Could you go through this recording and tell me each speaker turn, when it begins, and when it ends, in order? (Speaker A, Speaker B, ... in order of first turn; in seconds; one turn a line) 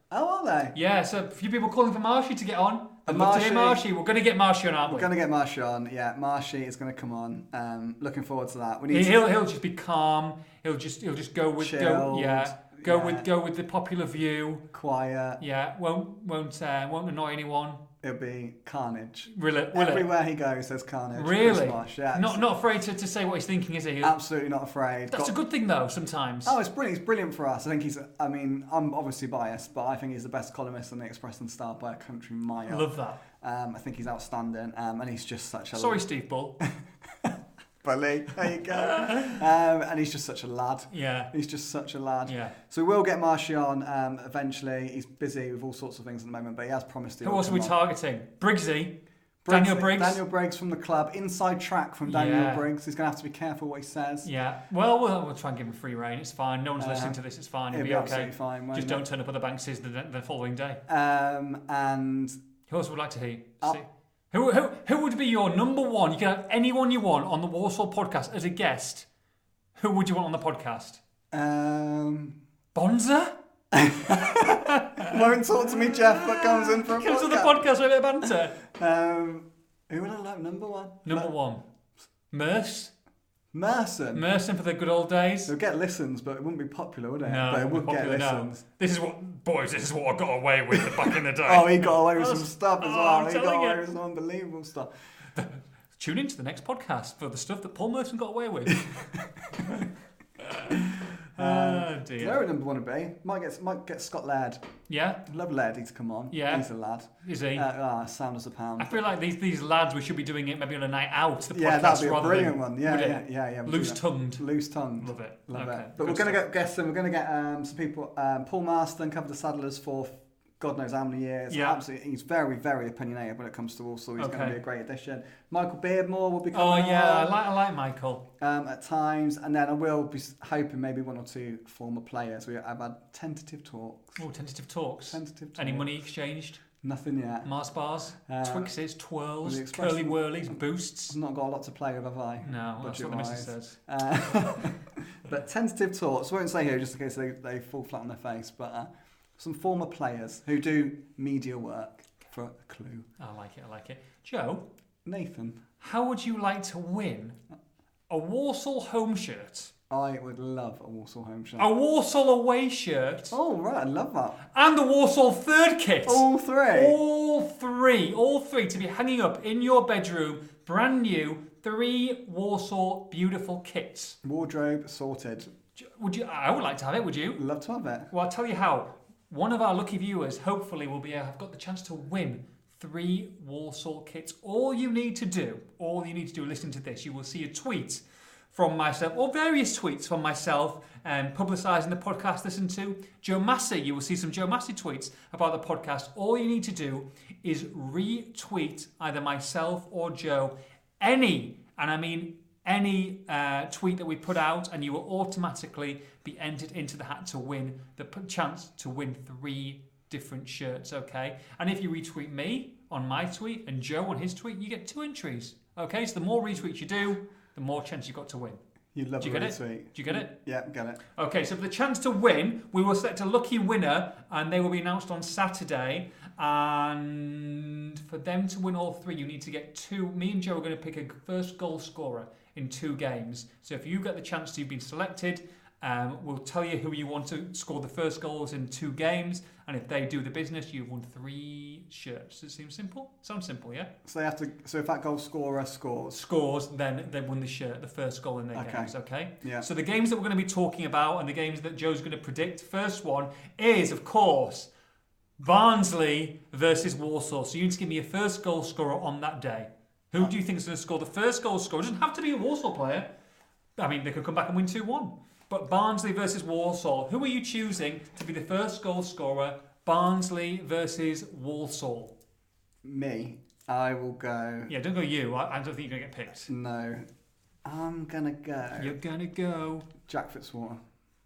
Speaker A: 0.1-0.7
Speaker B: 0.7-5.1
Speaker A: 3.0-3.8
Speaker A: 4.9-9.2
Speaker B: 8.9-14.7
Speaker A: 11.6-13.3
Speaker A: 14.7-15.4
Speaker B: 15.4-17.8
Speaker A: 18.0-22.4
Speaker B: 19.3-20.1
Speaker B: 21.1-24.1
Speaker A: 24.0-25.3
Speaker B: 25.1-26.6
Speaker A: 26.4-36.0
Speaker B: 32.7-33.2
Speaker B: 35.7-36.6
Speaker A: 36.6-47.8
Speaker B: 38.7-39.4
Speaker B: 40.9-41.3
Speaker B: 42.2-42.5
Speaker B: 47.2-48.9
Speaker A: 49.4-54.3
Speaker B: 49.5-50.2
Speaker B: 52.0-52.7
Speaker B: 54.2-60.8
Speaker A: 56.8-57.2
Speaker A: 57.7-59.0
Speaker A: 60.9-62.4
Speaker B: 62.7-69.1
Speaker B: 69.8-71.0
Speaker A: 71.3-72.4
Speaker B: 72.7-73.3
Speaker A: 73.7-77.6
Speaker B: 74.2-78.6
Speaker A: 78.6-81.3
Speaker B: 81.0-81.6
Speaker B: 82.3-82.9
Speaker A: 83.5-84.2
Speaker B: 84.1-85.5
Speaker A: 85.5-88.6
Speaker B: 87.2-93.8
Speaker A: 90.9-94.9
Speaker B: 95.4-98.9
Speaker A: 98.8-99.7
Speaker B: 99.6-99.9
Speaker B: 100.4-102.4
Speaker A: 101.4-104.6
Speaker B: 104.9-105.2
Speaker A: 105.2-109.0
Speaker B: 106.3-106.7
Speaker B: 107.2-107.7
Speaker B: 108.8-114.4
Speaker A: 111.5-127.3
Speaker B: 115.0-116.4
Speaker B: 121.5-121.8
Speaker B: 124.2-124.6
Speaker B: 126.5-128.2
Speaker A: 128.4-134.2
Speaker B: 134.2-136.6
Speaker A: 135.1-135.9
Speaker A: 136.8-137.5
Speaker B: 137.4-141.2
Speaker A: 138.3-138.7
Speaker A: 139.4-153.1
Speaker B: 142.4-143.8
Speaker B: 153.2-154.6
Speaker A: 155.0-155.6
Speaker B: 155.8-157.4
Speaker B: 158.1-159.7
Speaker A: 159.9-161.7
Speaker B: 161.6-163.4
Speaker A: 163.3-164.4
Speaker B: 164.5-174.2
Speaker A: 166.1-167.0
Speaker A: 174.2-175.5
Speaker B: 175.8-177.4
Speaker A: 177.4-178.1
Speaker B: 178.1-218.6
Speaker A: 218.9-221.0
Speaker B: 219.2-220.3
Speaker B: 221.2-243.9
Speaker A: 244.0-246.2
Speaker B: 246.1-254.7
Speaker A: 248.5-249.7
Speaker B: 255.4-263.1
Speaker B: 263.8-272.1
Speaker A: 272.8-274.7
Speaker B: 274.7-276.5
Speaker A: 276.5-277.0
Speaker A: 277.6-279.0
Speaker B: 278.8-279.9
Speaker A: 280.0-280.8